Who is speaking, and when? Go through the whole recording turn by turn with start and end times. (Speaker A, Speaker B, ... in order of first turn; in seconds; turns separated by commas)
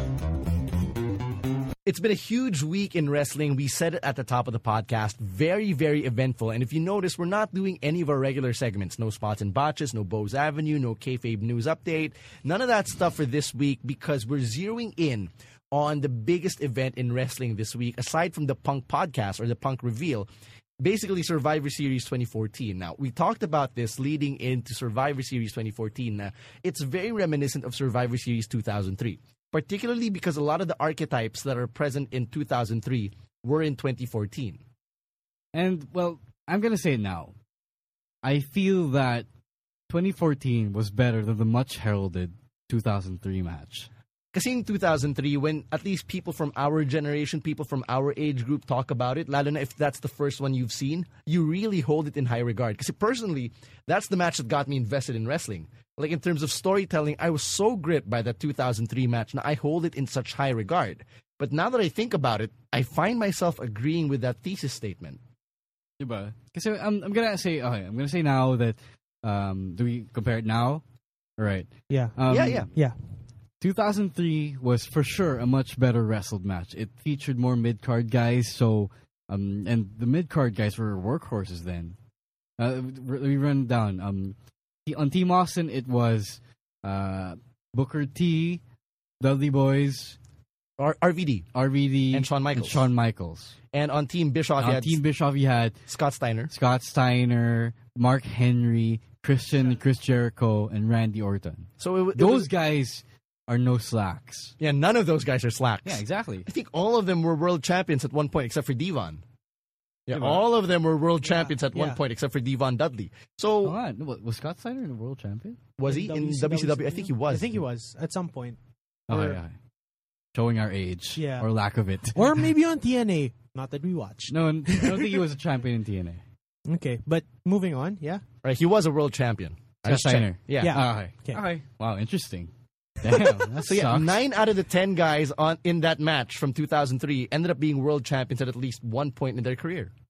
Speaker A: 1.9-20.3, Speaker A: 20.8-34.6, Speaker B: 35.5-37.3, Speaker B: 38.2-39.3, Speaker B: 39.9-43.9, Speaker A: 44.3-65.2, Speaker B: 66.0-70.8, Speaker B: 71.4-72.7, Speaker C: 71.9-73.0, Speaker A: 72.3-72.7, Speaker B: 73.6-82.0, Speaker B: 82.6-88.6, Speaker B: 89.2-90.2, Speaker A: 90.8-91.5, Speaker B: 91.5-93.6, Speaker A: 92.1-92.8, Speaker A: 93.7-95.0, Speaker B: 94.6-95.8, Speaker A: 95.9-96.5, Speaker B: 96.5-104.5, Speaker A: 101.8-102.5, Speaker A: 104.6-109.2, Speaker B: 105.8-106.5, Speaker A: 110.1-113.8, Speaker B: 110.1-110.4, Speaker C: 111.2-112.0, Speaker B: 113.6-115.6, Speaker A: 115.8-117.6, Speaker C: 115.9-118.6, Speaker B: 119.1-119.5, Speaker C: 119.1-119.4, Speaker B: 120.3-122.4, Speaker C: 121.2-121.5, Speaker C: 122.1-125.2, Speaker B: 124.3-126.2, Speaker C: 126.7-128.2, Speaker A: 128.4-130.8, Speaker B: 129.8-132.5, Speaker C: 130.6-131.4, Speaker B: 133.0-134.2, Speaker A: 133.6-139.9